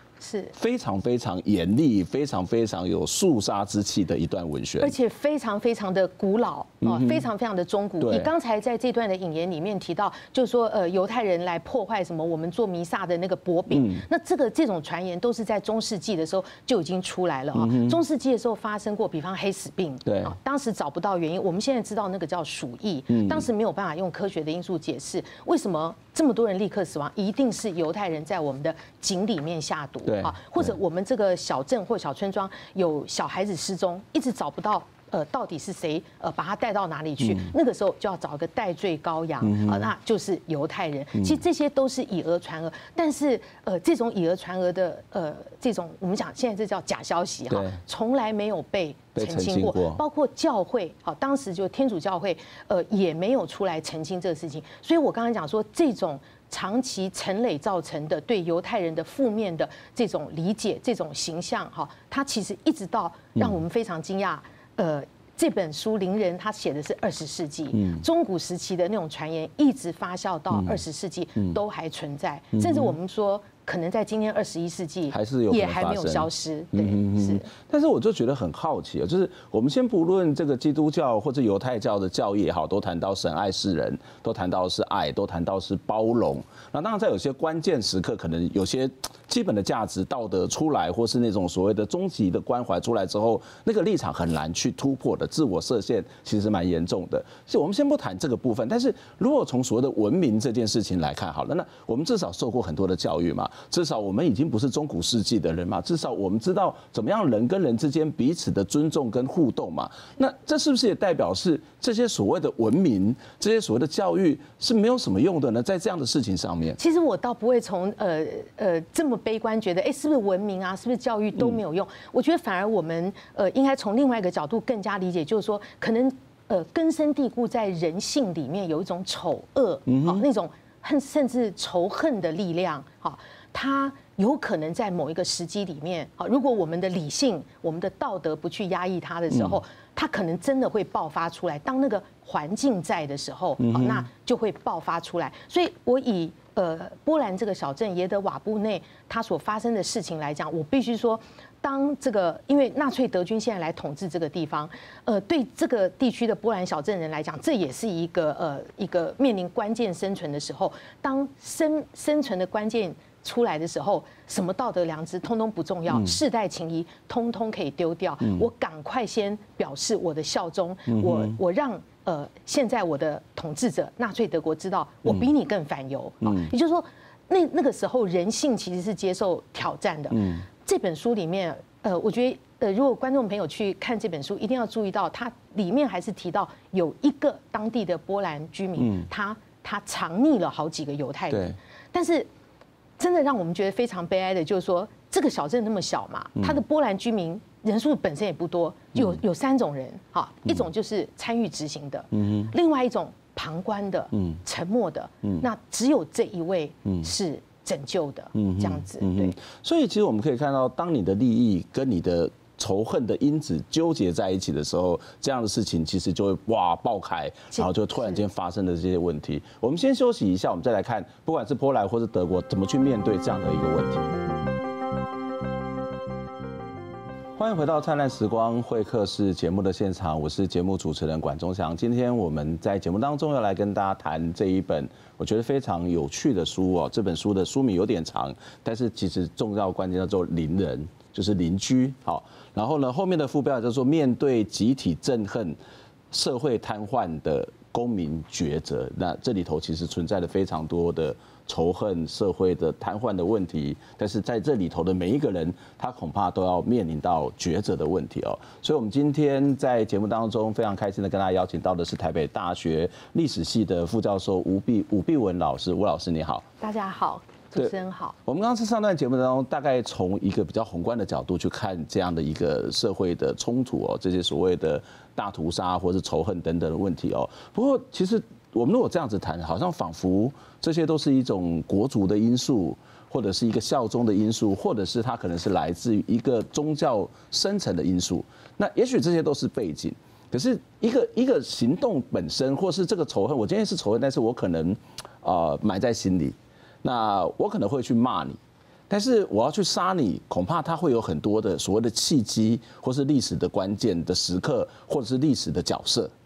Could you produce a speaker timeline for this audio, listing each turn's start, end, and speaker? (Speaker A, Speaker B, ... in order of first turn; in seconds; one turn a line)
Speaker A: 0.2-0.5
Speaker B: 0.6-4.9
Speaker A: 4.8-77.5
Speaker B: 6.8-7.2
Speaker B: 8.0-8.3
Speaker B: 13.7-14.0
Speaker B: 17.6-18.0
Speaker B: 20.1-20.3
Speaker B: 23.1-23.5
Speaker B: 30.1-30.7
Speaker B: 39.4-39.9
Speaker B: 47.5-47.8
Speaker B: 49.1-50.0
Speaker B: 67.8-68.0
Speaker B: 72.6-72.9
Speaker B: 75.1-116.8
Speaker A: 116.8-192.3
Speaker B: 129.9-130.2
Speaker B: 143.6-144.1
Speaker B: 170.9-171.3
Speaker B: 180.1-180.4
Speaker B: 188.8-189.1
Speaker B: 191.3-191.6
Speaker A: 193.0-209.4
Speaker B: 202.2-202.5
Speaker B: 208.4-224.2
Speaker A: 217.5-218.2
Speaker B: 227.4-245.6
Speaker B: 246.1-266.5
Speaker A: 266.6-268.2
Speaker B: 268.3-298.4
Speaker B: 298.9-306.1